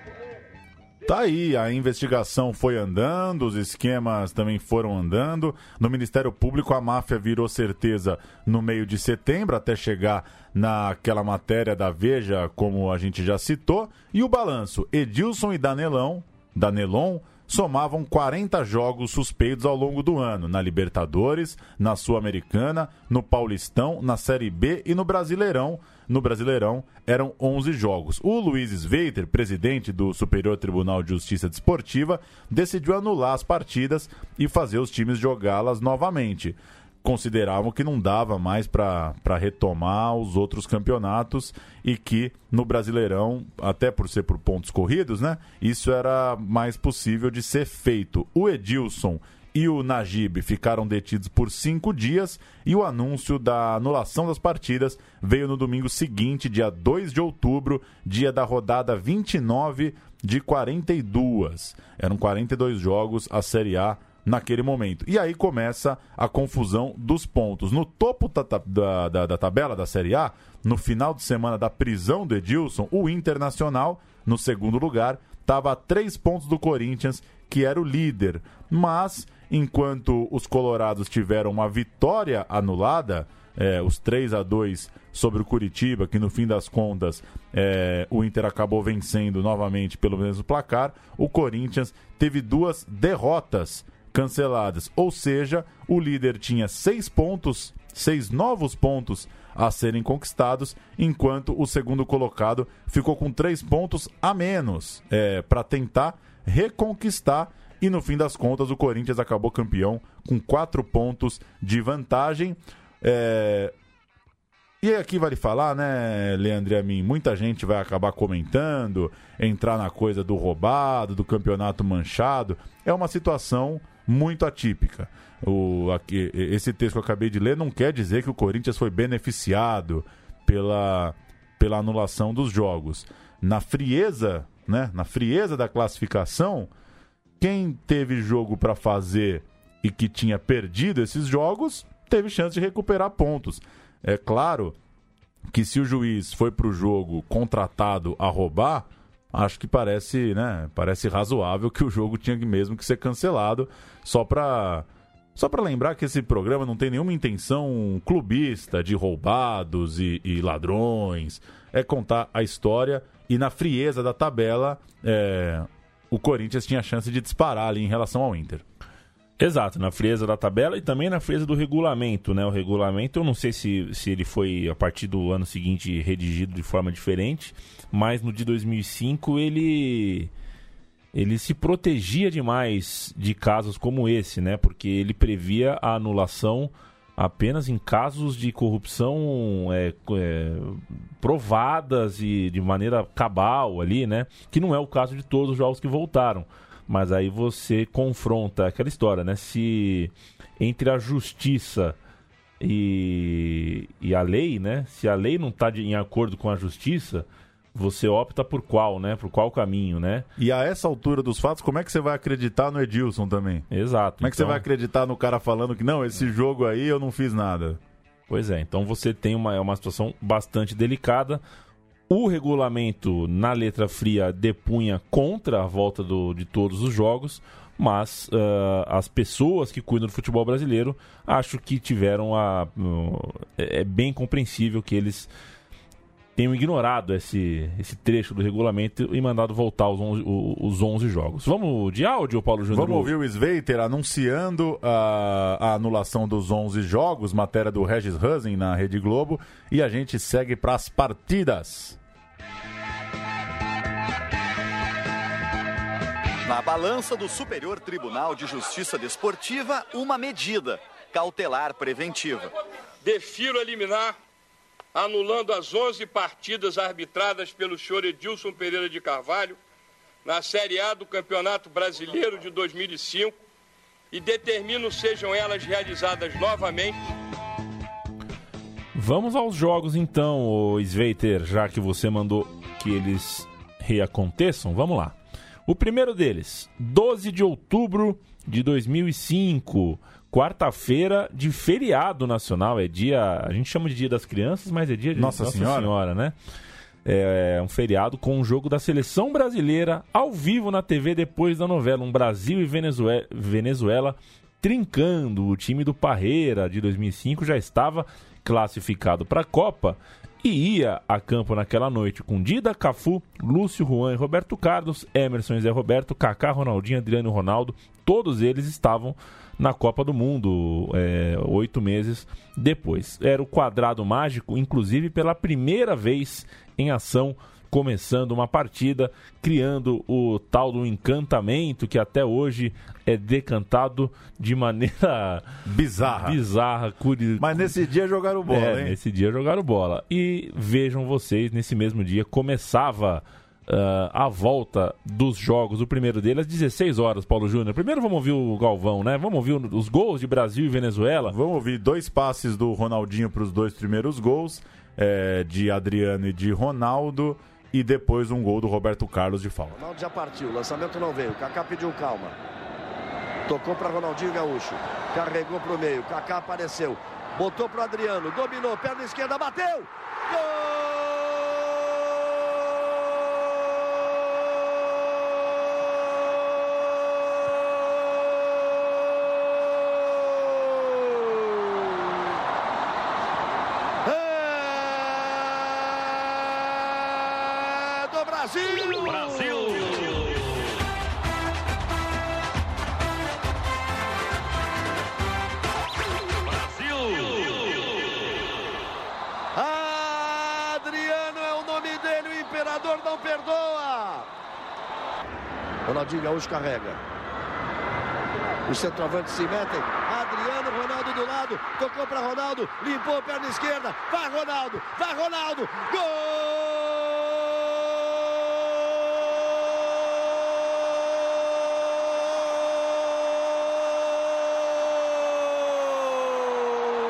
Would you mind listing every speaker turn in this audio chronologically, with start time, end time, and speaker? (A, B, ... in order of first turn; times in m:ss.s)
0:01.0-1:53.7 A
1:54.8-2:16.7 A
2:17.4-2:24.8 A
2:25.5-2:48.6 A
2:49.4-3:00.3 B
3:01.1-3:22.0 B
3:22.6-3:30.3 B
3:30.4-3:33.7 A
3:33.7-3:34.6 B
3:34.2-3:37.8 A
3:38.3-3:41.4 B
3:42.1-3:55.3 B
3:56.4-4:03.1 B
4:02.7-4:12.0 A
4:16.4-4:22.5 C
4:23.0-4:24.2 D
4:24.9-4:29.6 D
4:30.2-4:33.4 D
4:34.1-4:37.0 D
4:39.0-4:45.2 B
4:45.7-4:56.4 B
4:55.2-4:55.9 A
4:57.0-5:35.5 B
5:35.6-5:36.4 A
5:36.2-5:37.7 B
5:37.4-5:39.0 A
5:38.5-5:51.4 B
5:51.3-5:59.8 A
5:59.8-6:02.4 E
6:03.5-6:11.4 E
6:24.0-6:26.0 E
6:27.3-6:29.9 E
6:39.6-6:44.3 E
6:45.9-6:47.0 E
6:48.7-6:57.6 E
7:05.8-7:06.3 E